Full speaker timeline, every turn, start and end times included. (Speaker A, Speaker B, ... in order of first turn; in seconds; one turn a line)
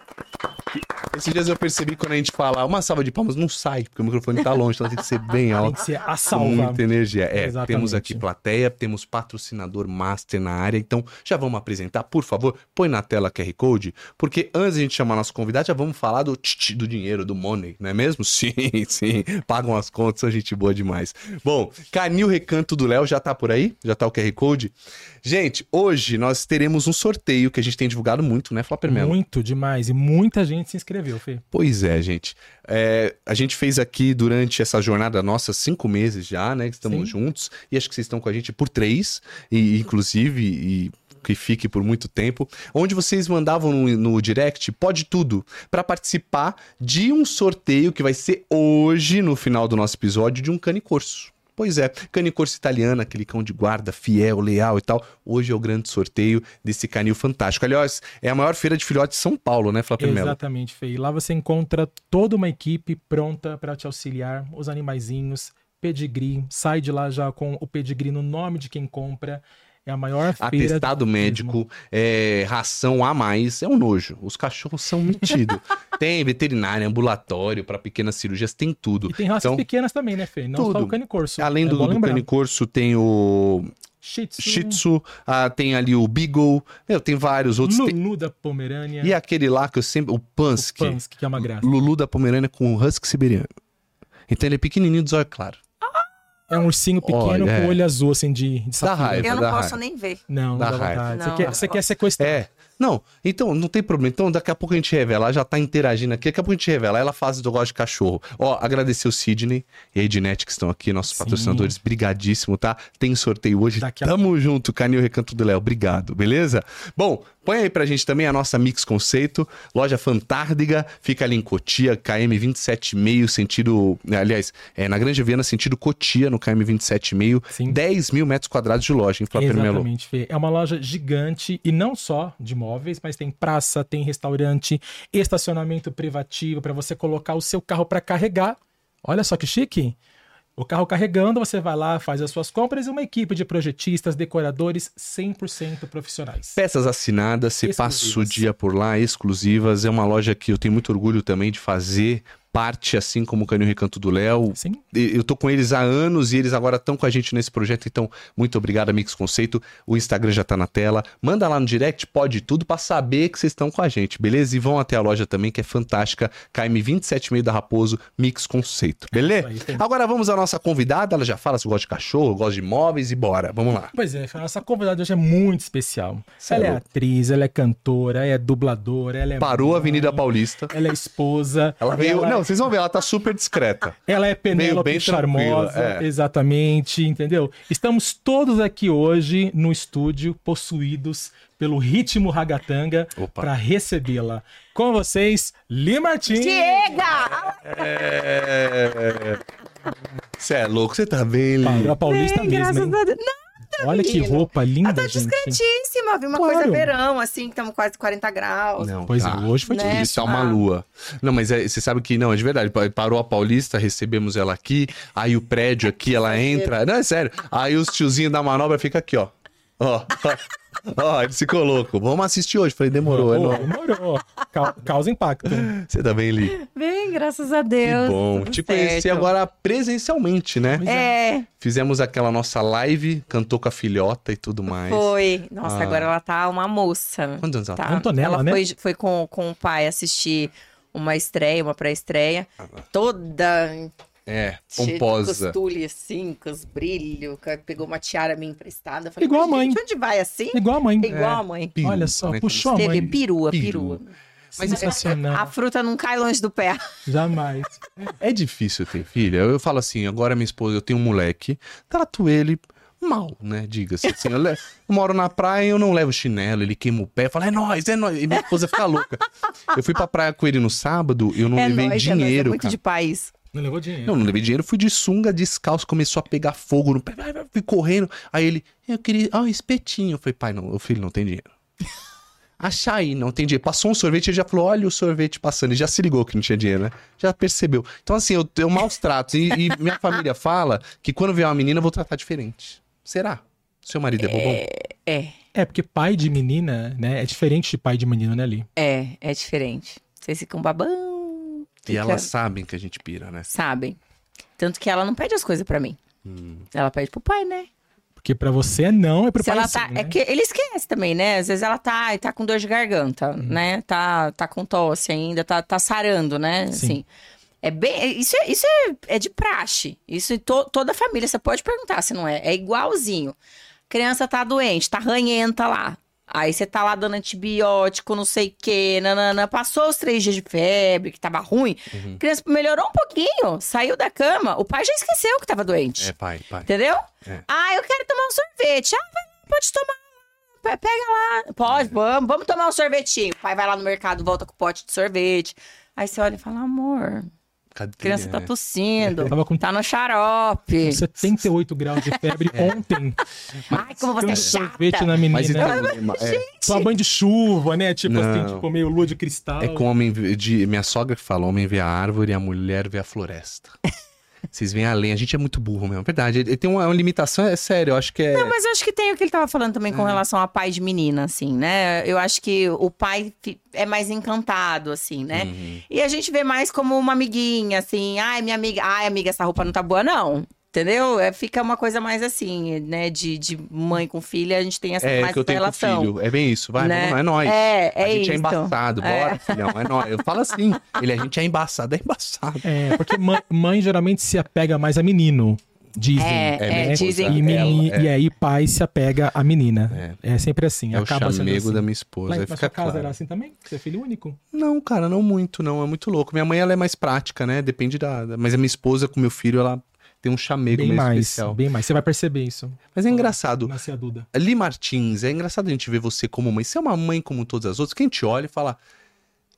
Speaker A: 1.0-5.8
Speaker B: 5.5-6.8
Speaker A: 6.3-29.1
Speaker B: 7.3-8.2
Speaker B: 28.9-31.4
Speaker A: 31.5-60.4
Speaker B: 36.9-37.1
Speaker B: 60.0-71.6
Speaker A: 70.4-79.6
Speaker B: 79.1-82.2
Speaker A: 80.5-83.7
Speaker B: 84.0-84.8
Speaker A: 84.4-88.0
Speaker B: 87.6-89.1
Speaker A: 89.0-93.5
Speaker B: 90.5-91.7
Speaker A: 94.3-95.6
Speaker C: 95.8-96.7
Speaker B: 96.5-99.3
Speaker A: 97.0-97.8
Speaker A: 98.8-99.8
Speaker C: 99.2-100.2
Speaker B: 100.3-102.4
Speaker A: 100.5-101.6
Speaker C: 101.1-101.8
Speaker A: 102.2-129.9
Speaker B: 111.1-111.7
Speaker B: 113.8-114.1
Speaker B: 127.5-127.8
Speaker B: 129.3-140.0
Speaker B: 140.6-146.6
Speaker A: 146.5-173.9
Speaker B: 147.6-148.4
Speaker B: 154.6-154.8
Speaker B: 169.1-169.8
Speaker B: 173.9-182.4
Speaker A: 176.4-176.8
Speaker A: 179.4-180.7
Speaker A: 181.8-184.0
Speaker B: 184.1-197.0
Speaker A: 184.5-186.1
Speaker A: 193.2-193.5
Speaker C: 196.3-197.9
Speaker A: 197.3-199.4
Speaker A: 200.4-202.0
Speaker B: 201.6-203.0
Speaker C: 202.0-208.9
Speaker B: 203.8-205.6
Speaker B: 206.3-206.9
Speaker A: 208.8-223.7
Speaker B: 209.1-210.3
Speaker C: 209.7-210.6
Speaker C: 216.0-216.7
Speaker B: 223.1-225.7
Speaker A: 225.5-226.6
Speaker C: 226.5-229.3
Speaker A: 227.8-230.8
Speaker B: 230.7-231.1
Speaker C: 230.8-231.5
Speaker A: 231.5-235.1
Speaker C: 234.7-243.9
Speaker A: 235.6-236.1
Speaker A: 237.4-238.0
Speaker B: 237.8-238.6
Speaker A: 244.3-245.5
Speaker C: 244.7-251.8
Speaker B: 249.2-249.8
Speaker B: 250.5-253.1
Speaker A: 251.8-254.0
Speaker C: 252.7-254.1
Speaker B: 254.5-255.5
Speaker A: 254.6-255.1
Speaker C: 254.7-256.9
Speaker B: 257.1-258.1
Speaker A: 258.2-272.8
Speaker C: 271.5-273.3
Speaker B: 273.5-274.3
Speaker A: 274.0-281.5
Speaker A: 282.6-294.7
Speaker C: 294.2-295.3
Speaker B: 295.5-298.6
Speaker C: 298.8-302.3
Speaker A: 301.9-303.5
Speaker C: 303.5-304.0
Speaker C: 304.6-306.0
Speaker A: 306.2-306.6
Speaker C: 306.7-307.7
Speaker B: 308.2-310.1
Speaker C: 309.4-317.0
Speaker B: 316.7-317.0
Speaker C: 317.6-323.3
Speaker C: 323.9-336.1
Speaker A: 331.9-332.2
Speaker A: 336.0-336.7
Speaker C: 336.6-340.1
Speaker C: 340.6-347.3
Speaker A: 341.7-341.9
Speaker A: 347.7-348.5
Speaker C: 348.0-351.1
Speaker A: 349.1-349.3
Speaker B: 349.2-349.6
Speaker B: 350.8-353.2
Speaker A: 352.5-352.8
Speaker A: 353.7-354.6
Speaker C: 353.7-356.9
Speaker B: 354.2-355.8
Speaker A: 355.3-356.4
Speaker B: 356.6-359.9
Speaker A: 358.0-358.6
Speaker A: 359.6-363.8
Speaker A: 364.5-368.5
Speaker C: 368.3-386.1
Speaker A: 369.9-370.2
Speaker A: 375.3-375.8
Speaker A: 385.0-392.7
Speaker C: 386.8-390.1
Speaker B: 392.6-404.4
Speaker C: 396.2-397.8
Speaker A: 396.6-398.1
Speaker A: 399.9-400.2
Speaker A: 400.9-403.1
Speaker A: 404.5-411.6
Speaker B: 410.7-414.3
Speaker A: 412.9-413.7
Speaker A: 414.3-418.8